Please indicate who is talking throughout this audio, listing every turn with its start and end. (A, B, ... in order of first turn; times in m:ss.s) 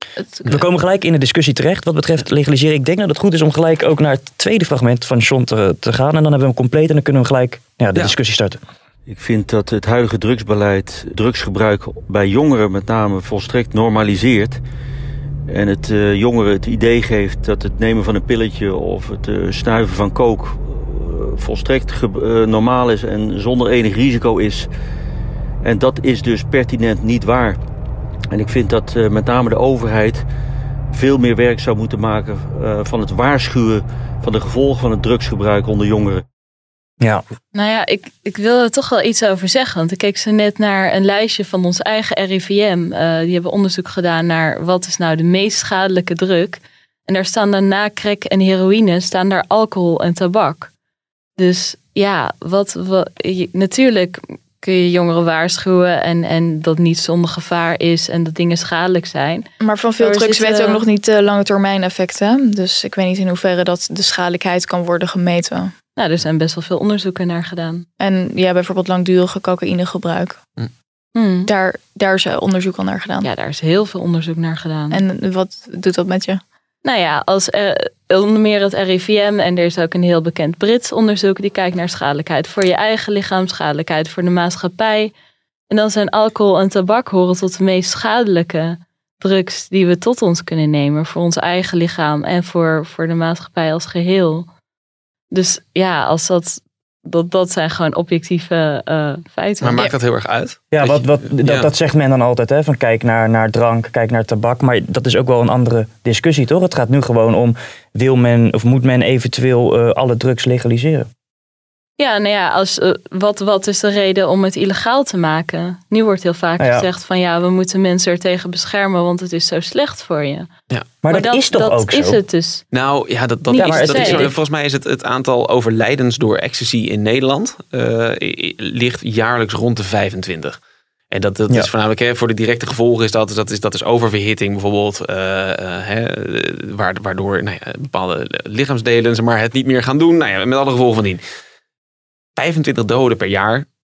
0:00.5-0:08.6 A
0:09.1-0:14.6 B
0:15.5-0:24.7 B
0:25.6-0:27.6 B
0:28.3-0:30.2 B
0:30.9-0:36.2 B
0:37.5-0:50.7 C
0:51.4-0:59.4 C
0:59.6-1:05.7 D
1:00.0-1:00.8 C
1:06.0-1:07.8 C
1:08.0-1:10.4 D
1:11.1-1:11.5 C
1:11.5-1:13.3 D
1:13.2-1:15.0 C
1:14.9-1:16.4 D
1:16.8-1:25.1 C
1:25.7-1:34.5 C
1:35.3-1:39.8 C
1:39.6-1:41.7 E
1:40.7-1:51.1 A
1:52.0-2:00.5 C
1:56.6-1:56.9 A
2:01.0-2:02.2 A
2:01.1-2:02.6 C
2:02.7-2:10.6 E
2:03.5-2:04.3 C
2:03.5-2:04.3 A
2:11.1-2:21.2 E
2:22.4-2:23.6 E